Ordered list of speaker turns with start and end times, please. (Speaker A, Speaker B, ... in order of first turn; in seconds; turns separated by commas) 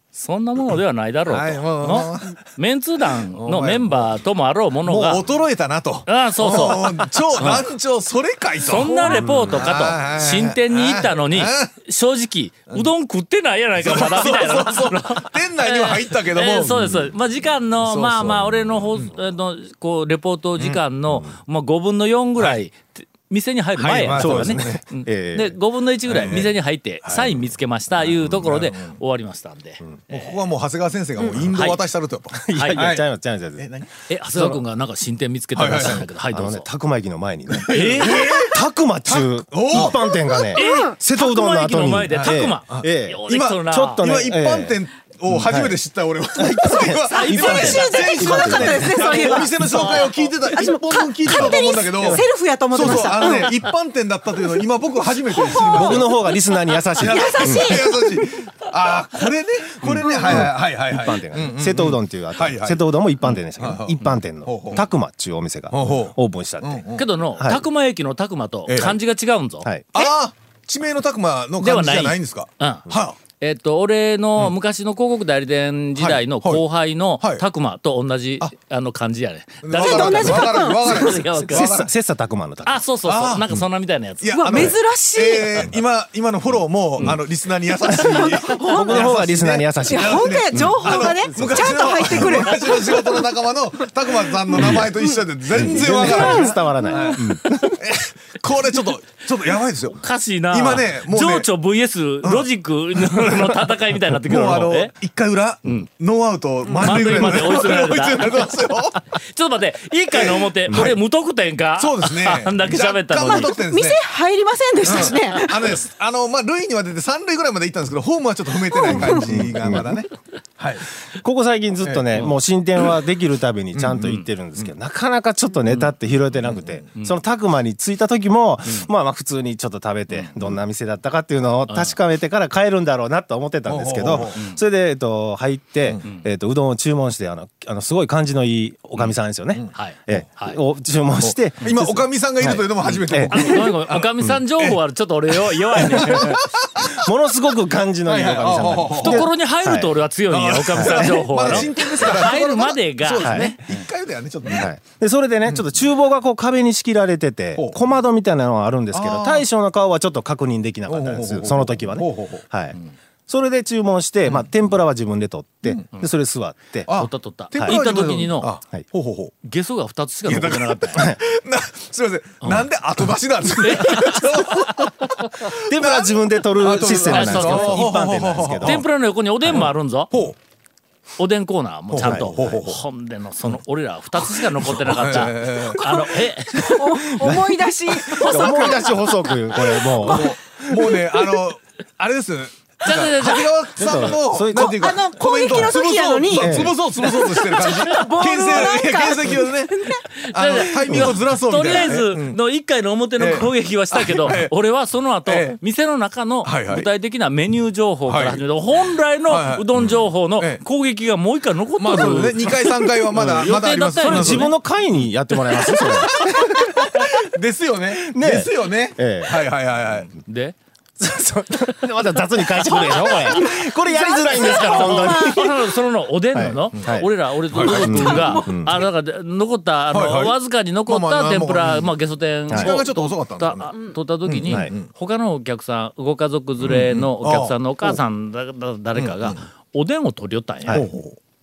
Speaker A: 0.1-5.2, Speaker B: 1.3-2.4, Speaker B: 3.1-4.2, Speaker B: 4.8-11.7, Speaker A: 6.1-7.7, Speaker A: 8.6-30.4, Speaker C: 9.1-9.6, Speaker B: 13.8-17.0, Speaker B: 17.8-19.1, Speaker B: 23.8-24.8, Speaker C: 24.1-25.6, Speaker B: 26.1-29.0, Speaker B: 30.1-34.6, Speaker A: 31.3-31.9, Speaker C: 32.3-33.7, Speaker A: 32.5-32.9, Speaker A: 34.1-36.7, Speaker B: 35.5-36.1, Speaker C: 35.8-45.8, Speaker B: 37.5-38.5, Speaker A: 37.7-38.4, Speaker B: 39.1-40.1, Speaker D: 40.5-40.9, Speaker A: 40.5-44.0, Speaker B: 42.1-56.2, Speaker C: 46.4-48.9, Speaker A: 47.1-48.3, Speaker D: 47.2-53.5, Speaker A: 49.7-50.1, Speaker D: 55.4-56.3, Speaker C: 55.7-57.9, Speaker B: 57.0-64.9, Speaker D: 57.0-58.2, Speaker C: 59.9-66.8, Speaker B: 65.7-67.1, Speaker A: 67.0-70.1, Speaker C: 67.4-67.6, Speaker B: 68.7-69.0, Speaker B: 69.9-73.2, Speaker A: 71.6-72.9, Speaker A: 73.4-81.8, Speaker B: 76.0-76.6, Speaker B: 77.2-77.5, Speaker B: 79.6-81.9, Speaker D: 79.8-81.3, Speaker C: 81.5-82.8, Speaker A: 82.6-84.7, Speaker B: 83.0-83.7, Speaker B: 84.2-100.0, Speaker D: 84.3-85.7, Speaker D: 87.9-89.3, Speaker C: 88.7-92.2, Speaker D: 89.8-93.2, Speaker C: 94.6-94.9, Speaker D: 94.6-95.0, Speaker C: 95.5-97.7, Speaker D: 95.5-97.3, Speaker A: 100.0-104.9, Speaker B: 100.5-101.5, Speaker B: 102.2-109.0, Speaker A: 106.8-113.6, Speaker D: 106.9-107.3, Speaker B: 110.1-111.0, Speaker B: 111.8-114.0, Speaker D: 113.7-115.7, Speaker B: 114.8-120.9, Speaker D: 118.7-119.2, Speaker C: 118.9-120.0, Speaker C: 121.2-143.7, Speaker B: 121.8-122.4, Speaker B: 123.7-124.7, Speaker A: 125.7-125.9, Speaker B: 126.4-126.8, Speaker A: 131.7-132.0, Speaker B: 133.7-134.4, Speaker A: 134.3-134.6, Speaker A: 139.7-140.6, Speaker B: 141.2-146.9, Speaker A: 142.9-146.4, Speaker C: 145.8-149.9, Speaker B: 148.1-149.3, Speaker A: 149.0-153.6, Speaker B: 150.3-154.7, Speaker C: 150.7-151.7, Speaker C: 153.2-153.5, Speaker C: 154.5-167.0, Speaker B: 158.9-159.4, Speaker B: 160.9-162.4, Speaker B: 166.9-169.3, Speaker A: 166.9-168.5, Speaker A: 169.4-171.1, Speaker B: 170.3-178.8, Speaker C: 170.9-171.2, Speaker A: 173.6-174.5, Speaker C: 175.4-178.8, Speaker A: 177.0-177.9, Speaker A: 178.6-180.1, Speaker B: 179.5-180.4, Speaker A: 181.2-186.8, Speaker B: 181.9-182.8, Speaker C: 182.0-182.3, Speaker B: 184.6-186.0, Speaker D: 185.9-189.0, Speaker C: 187.2-187.6, Speaker C: 188.1-190.9, Speaker A: 188.1-189.0, Speaker B: 190.0-202.4, Speaker A: 192.8-193.5, Speaker C: 193.8-194.9, Speaker D: 194.5-200.0, Speaker C: 196.3-196.8, Speaker A: 200.0-214.6, Speaker B: 203.2-204.5, Speaker B: 205.2-205.6, Speaker B: 206.4-206.9, Speaker B: 208.1-208.4, Speaker B: 209.3-210.6, Speaker B: 211.8-214.5, Speaker C: 214.1-217.2, Speaker B: 217.3-220.1, Speaker C: 218.0-219.4, Speaker A: 220.2-220.6, Speaker C: 221.0-225.6, Speaker D: 223.4-225.4, Speaker A: 224.6-240.9, Speaker C: 226.3-228.8, Speaker B: 227.5-228.4, Speaker D: 227.9-228.3, Speaker B: 229.9-231.9, Speaker B: 232.5-234.9, Speaker C: 232.5-232.8, Speaker C: 234.5-234.7, Speaker B: 236.6-238.0, Speaker B: 238.9-239.4, Speaker B: 240.7-241.2